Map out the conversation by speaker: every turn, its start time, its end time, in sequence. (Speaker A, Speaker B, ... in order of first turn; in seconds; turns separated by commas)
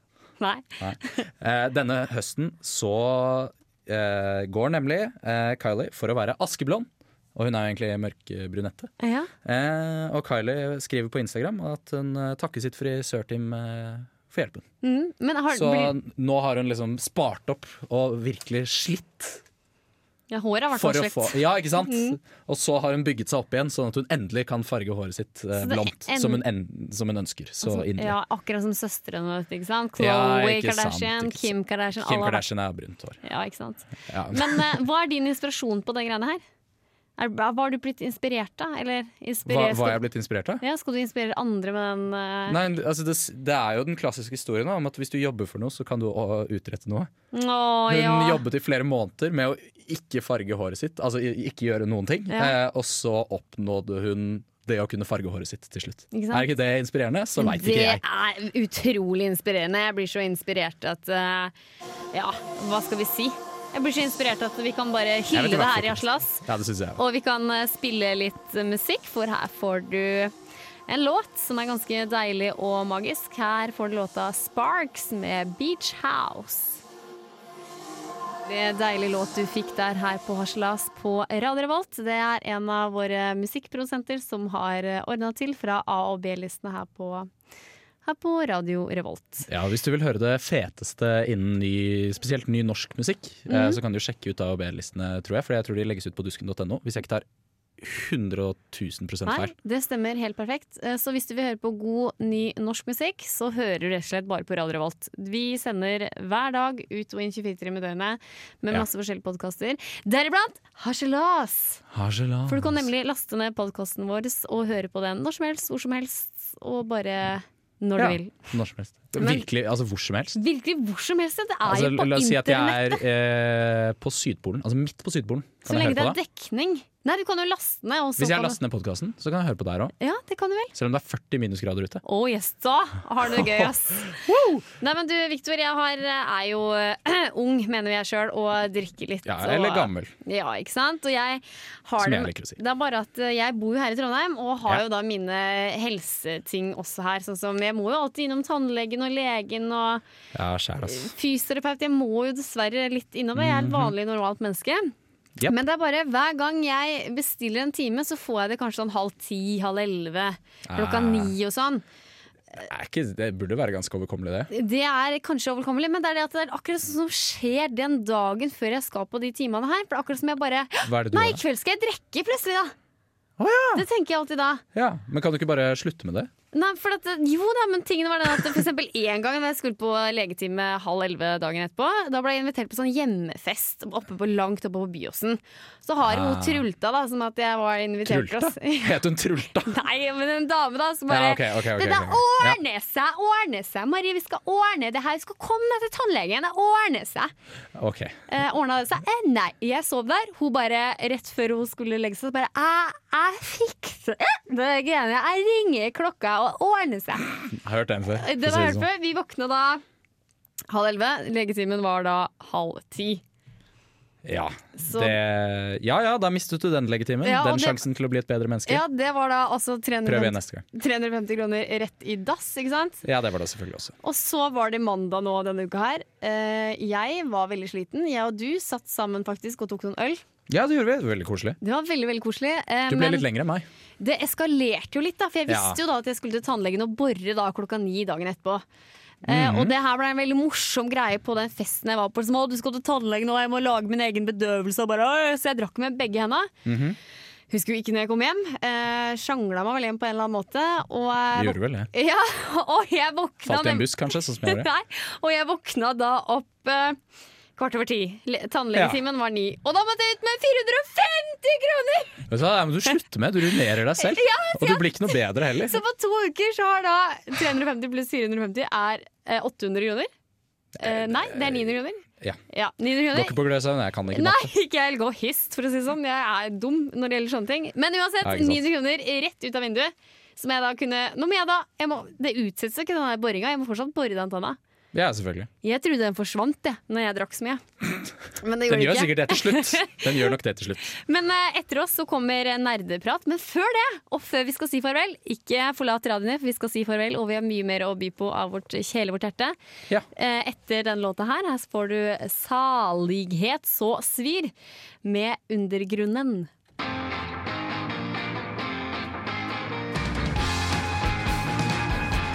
Speaker A: 0.4-1.2, Speaker B: 0.8-8.9, Speaker A: 9.0-9.3, Speaker B: 9.4-14.6, Speaker A: 14.8-15.9, Speaker B: 15.5-19.4, Speaker A: 20.3-22.2, Speaker B: 20.7-28.2, Speaker A: 25.6-26.4, Speaker A: 27.6-32.4, Speaker B: 30.0-33.2, Speaker A: 33.2-36.4, Speaker B: 34.1-34.8, Speaker A: 37.2-40.0, Speaker B: 39.5-40.6, Speaker A: 40.6-42.6, Speaker B: 42.5-47.1, Speaker A: 47.3-48.4, Speaker B: 47.9-58.0, Speaker A: 56.1-56.5, Speaker A: 57.4-61.5, Speaker A: 62.1-66.4, Speaker B: 65.3-67.0, Speaker A: 67.0-70.3, Speaker A: 70.9-76.8, Speaker A: 78.4-87.3, Speaker A: 88.0-89.5, Speaker B: 89.5-97.2, Speaker A: 93.5-93.8, Speaker B: 97.8-99.5, Speaker A: 99.2-111.8, Speaker B: 111.9-112.9, Speaker A: 112.5-118.3, Speaker B: 118.0-120.4, Speaker A: 119.1-119.5, Speaker A: 120.3-123.0, Speaker B: 121.6-126.2, Speaker A: 125.7-128.6, Speaker B: 128.2-129.9, Speaker A: 130.0-130.7, Speaker B: 130.8-132.0, Speaker A: 132.0-150.0, Speaker B: 133.3-134.6, Speaker B: 139.2-140.1, Speaker B: 142.0-142.6, Speaker B: 150.3-151.1, Speaker A: 150.9-154.9, Speaker B: 153.3-153.9, Speaker A: 155.4-161.8, Speaker B: 160.7-161.3, Speaker B: 162.6-164.5, Speaker A: 164.5-172.7, Speaker B: 170.8-171.4, Speaker B: 173.4-173.8, Speaker A: 173.7-174.6, Speaker B: 174.7-176.3, Speaker A: 176.5-189.0, Speaker B: 186.1-186.7, Speaker B: 188.1-189.8, Speaker A: 189.7-197.3, Speaker B: 191.1-192.6, Speaker B: 197.8-198.2, Speaker A: 198.3-207.3, Speaker B: 207.5-208.9, Speaker A: 208.2-209.8, Speaker A: 210.7-213.2, Speaker B: 214.2-218.8, Speaker A: 214.8-215.2, Speaker A: 217.2-217.8, Speaker A: 218.7-223.0, Speaker B: 220.1-220.6, Speaker B: 223.0-223.9, Speaker A: 224.0-230.2, Speaker B: 230.5-231.6, Speaker A: 231.6-233.3, Speaker B: 232.9-233.7, Speaker A: 234.0-238.6, Speaker B: 235.5-235.8, Speaker A: 239.2-246.5, Speaker B: 239.3-239.7, Speaker B: 246.7-247.0, Speaker A: 247.5-257.0, Speaker B: 251.3-251.9, Speaker B: 253.5-254.7, Speaker A: 257.6-262.2, Speaker B: 258.7-259.0, Speaker B: 262.3-265.8, Speaker A: 264.0-270.1, Speaker B: 270.8-272.4, Speaker A: 270.8-273.4, Speaker B: 273.1-274.5, Speaker A: 274.1-284.6, Speaker B: 278.2-278.7, Speaker B: 284.9-285.5, Speaker A: 285.6-287.6, Speaker A: 288.4-290.3, Speaker B: 288.7-290.9, Speaker A: 291.0-299.6, Speaker A: 300.1-304.5, Speaker A: 305.0-306.5